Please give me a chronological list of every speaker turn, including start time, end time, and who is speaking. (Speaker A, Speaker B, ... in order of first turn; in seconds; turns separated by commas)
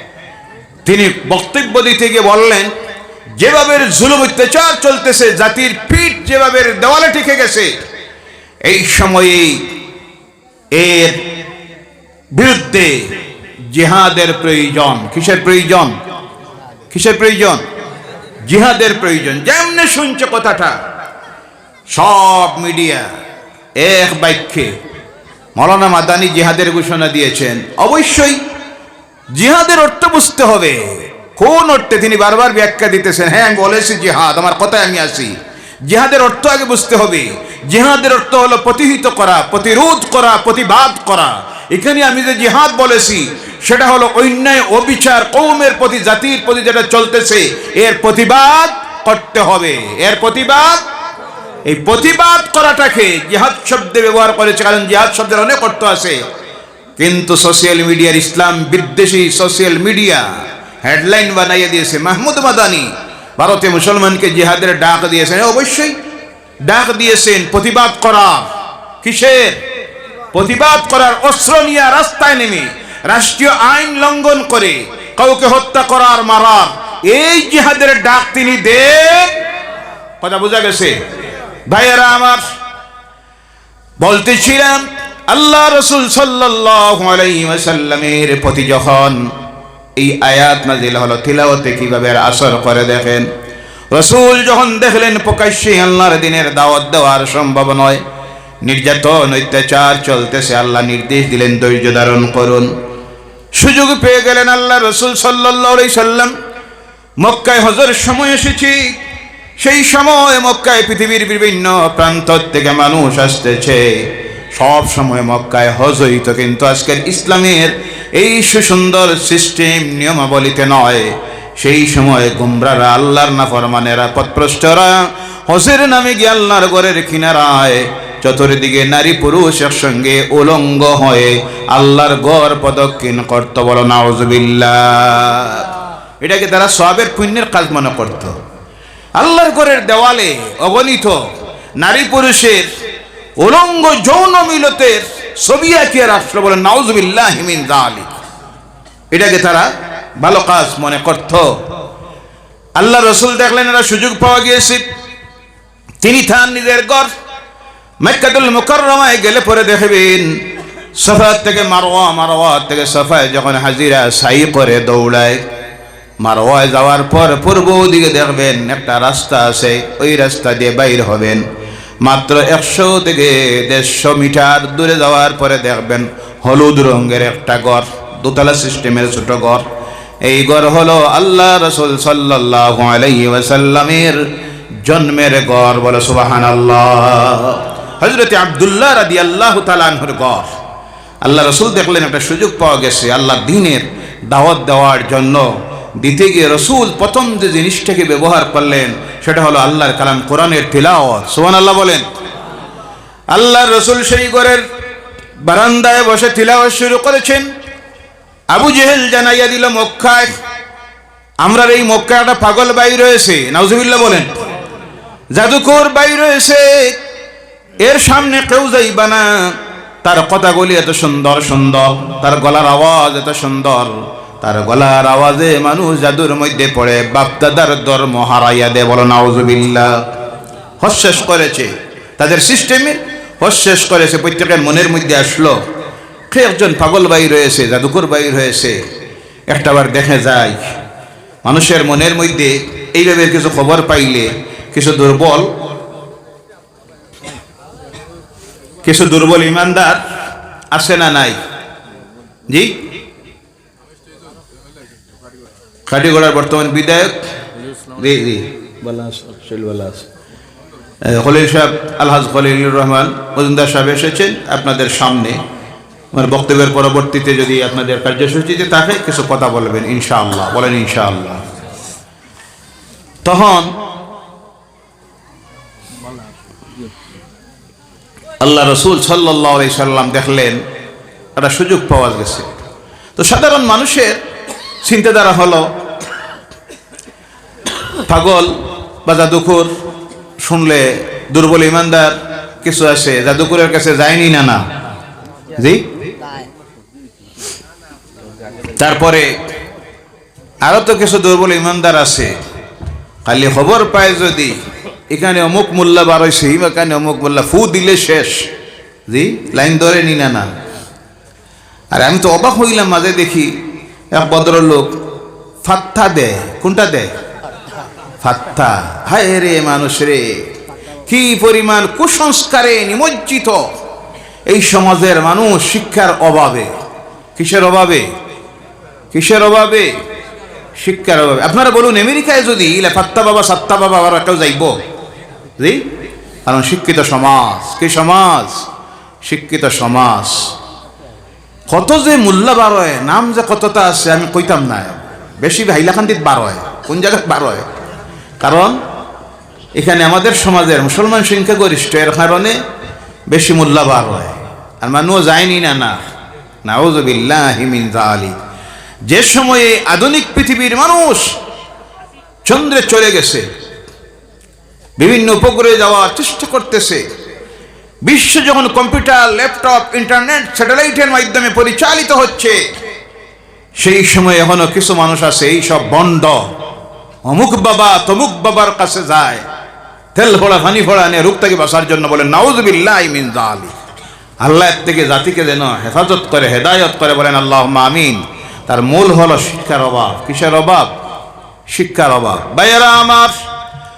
Speaker A: 0.8-2.7, Speaker A: 3.4-7.7, Speaker A: 8.7-9.7, Speaker A: 10.7-11.2, Speaker A: 12.3-13.1, Speaker A: 13.7-15.9, Speaker A: 16.9-17.6, Speaker A: 18.5-20.8, Speaker A: 21.9-23.1, Speaker A: 23.8-24.7, Speaker A: 25.6-28.4, Speaker A: 29.3-35.4, Speaker A: 35.9-50.8, Speaker A: 51.7-56.2, Speaker A: 57.0-60.3, Speaker A: 60.8-65.9, Speaker A: 66.7-68.5, Speaker A: 69.0-69.6, Speaker A: 70.3-79.4, Speaker A: 80.2-81.0, Speaker A: 81.7-82.5, Speaker A: 84.0-89.3, Speaker A: 90.0-93.3, Speaker A: 93.9-98.0, Speaker A: 98.6-102.7, Speaker A: 103.6-106.3, Speaker A: 107.2-109.0, Speaker A: 109.6-138.3, Speaker A: 139.2-141.2, Speaker A: 141.8-142.7, Speaker A: 143.4-148.1, Speaker A: 149.1-151.5, Speaker A: 152.8-154.8, Speaker A: 156.0-157.1, Speaker A: 158.0-160.3, Speaker A: 161.0-165.4, Speaker A: 166.2-171.4, Speaker A: 172.0-179.6, Speaker A: 180.2-184.3, Speaker A: 184.8-190.5, Speaker A: 191.2-202.1, Speaker A: 203.3-204.6, Speaker A: 205.4-207.5, Speaker A: 208.5-210.3, Speaker A: 211.4-214.4, Speaker A: 215.3-217.0, Speaker A: 217.8-219.5, Speaker A: 220.0-230.0, Speaker A: 230.8-235.6, Speaker A: 236.3-238.8, Speaker A: 239.5-240.7, Speaker A: 241.4-245.5, Speaker A: 248.8-250.0, Speaker A: 250.7-251.4, Speaker A: 252.5-252.8, Speaker A: 255.9-257.1, Speaker A: 257.9-260.1, Speaker A: 261.0-265.4, Speaker A: 266.1-271.4, Speaker A: 273.2-273.8, Speaker A: 278.4-280.6, Speaker A: 281.4-282.6, Speaker A: 283.2-284.2, Speaker A: 284.8-285.7, Speaker A: 288.1-289.7, Speaker A: 290.4-294.6, Speaker A: 295.6-295.9, Speaker A: 298.8-299.3, Speaker A: 300.6-302.3, Speaker A: 303.3-304.6, Speaker A: 305.1-308.5, Speaker A: 309.1-310.5, Speaker A: 311.9-313.5, Speaker A: 314.1-314.9, Speaker A: 315.6-317.1, Speaker A: 318.2-320.4, Speaker A: 321.1-323.7, Speaker A: 324.5-326.7, Speaker A: 327.4-328.1, Speaker A: 329.1-329.9, Speaker A: 330.8-334.8, Speaker A: 335.6-335.8, Speaker A: 336.5-338.6, Speaker A: 339.3-340.5, Speaker A: 341.7-347.6, Speaker A: 348.4-348.8, Speaker A: 349.8-352.6, Speaker A: 353.3-356.0, Speaker A: 356.6-358.4, Speaker A: 359.1-361.3, Speaker A: 362.4-363.4, Speaker A: 365.0-367.0, Speaker A: 368.1-372.6, Speaker A: 373.8-376.5, Speaker A: 377.2-379.5, Speaker A: 380.1-383.7, Speaker A: 384.4-390.9, Speaker A: 391.7-393.4